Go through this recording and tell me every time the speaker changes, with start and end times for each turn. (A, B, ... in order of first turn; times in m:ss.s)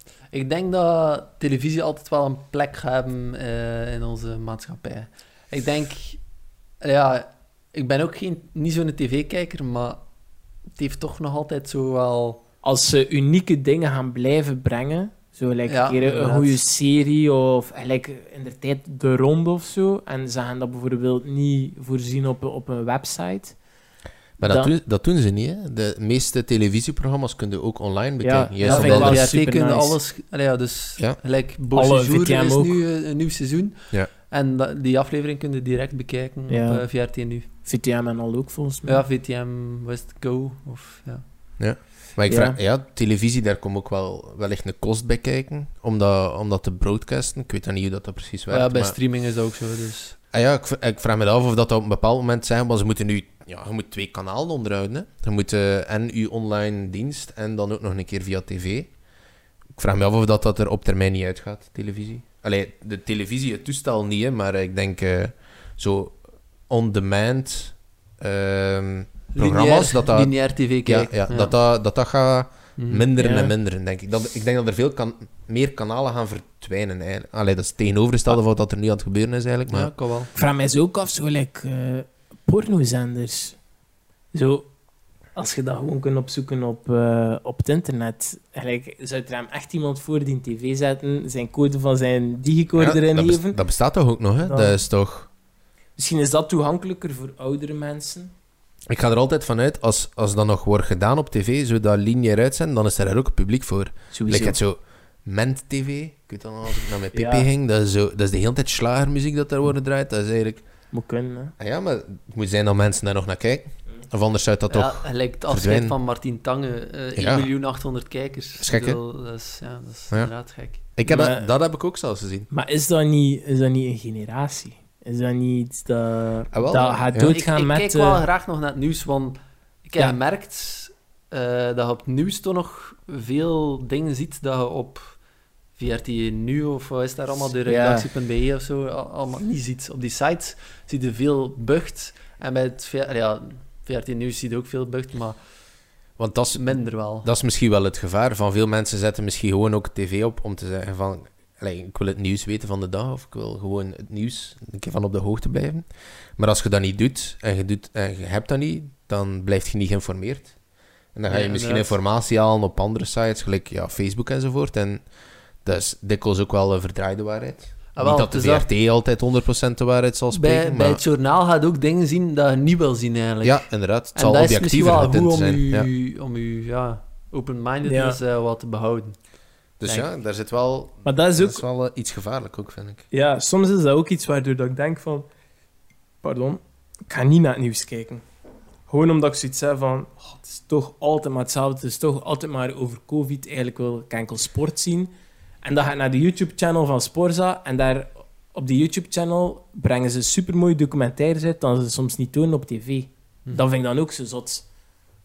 0:00.3-0:12.4 A
0:12.6-0:23.6 B
0:15.7-0:16.6 A
0:24.4-0:24.7 B
0:24.4-0:29.3 C
0:28.2-0:30.0 B
0:28.6-0:37.5 A
0:31.7-0:32.8 B
0:36.5-0:39.0 B
0:38.8-0:41.6 A
0:41.6-0:49.0 C
0:42.3-0:42.6 B
0:48.5-0:50.2 A
0:50.3-0:59.1 C
0:59.7-1:19.9 C
1:09.3-1:11.6 A
1:12.8-1:13.1 A
1:13.2-1:13.5 B
1:19.7-1:20.3 A
1:20.3-1:23.6 B
1:24.3-1:24.7 B
1:25.3-1:34.8 B
1:32.8-1:35.3 C
1:36.0-1:38.3 B
1:38.9-1:50.7 C
1:44.1-1:44.6 B
1:47.1-1:47.5 B
1:50.9-1:51.5 B
1:51.6-1:56.0 C
1:54.7-2:00.8 A
1:57.1-1:57.5 C
1:58.6-1:59.0 C
2:00.1-2:02.5 C
2:01.0-2:01.6 B
2:02.5-2:08.2 B
2:06.5-2:07.3 C
2:06.7-2:26.0 A
2:17.6-2:18.1 B
2:26.2-2:51.0 C
2:26.5-2:27.3 A
2:41.3-2:42.0 A
2:47.9-2:48.7 A
2:50.3-3:00.1 A
2:53.4-2:55.9 C
2:57.8-2:58.2 B
2:59.8-3:03.1 C
3:01.0-3:01.6 B
3:03.1-3:05.3 B
3:06.2-3:08.2 B
3:08.9-3:15.1 B
3:15.6-3:24.7 B